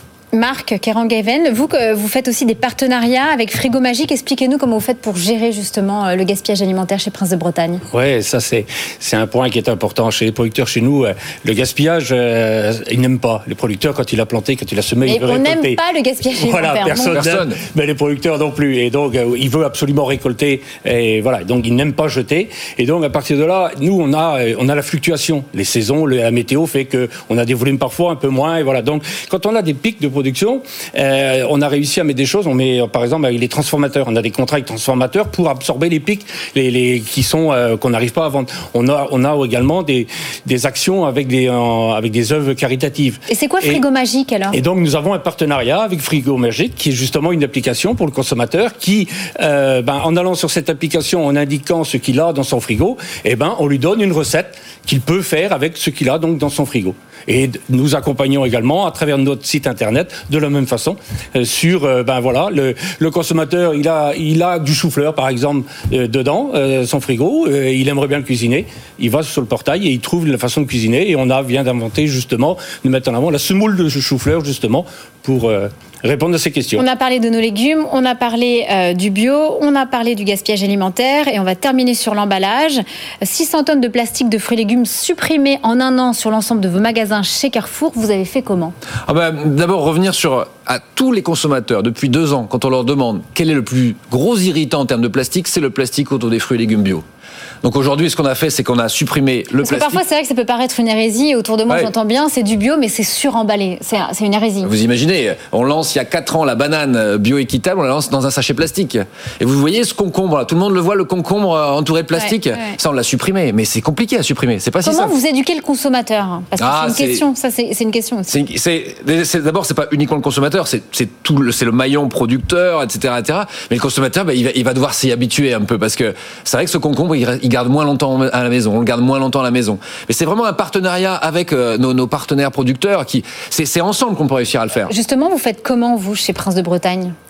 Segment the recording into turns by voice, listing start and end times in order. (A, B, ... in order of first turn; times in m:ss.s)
0:00.3-0:07.8 A
0:07.9-0:15.8 B
0:15.0-0:17.2 A
0:16.4-0:43.8 B
0:17.1-0:17.6 C
0:43.3-0:44.6 A
0:44.5-1:16.8 B
1:16.8-1:28.7 A
1:29.1-1:37.0 C
1:37.6-1:40.0 C
1:39.6-1:44.7 A
1:44.6-1:55.2 C
1:52.2-1:52.7 A
1:54.8-1:58.3 A
1:56.6-1:57.2 C
1:58.3-2:14.9 C
2:14.8-2:17.1 A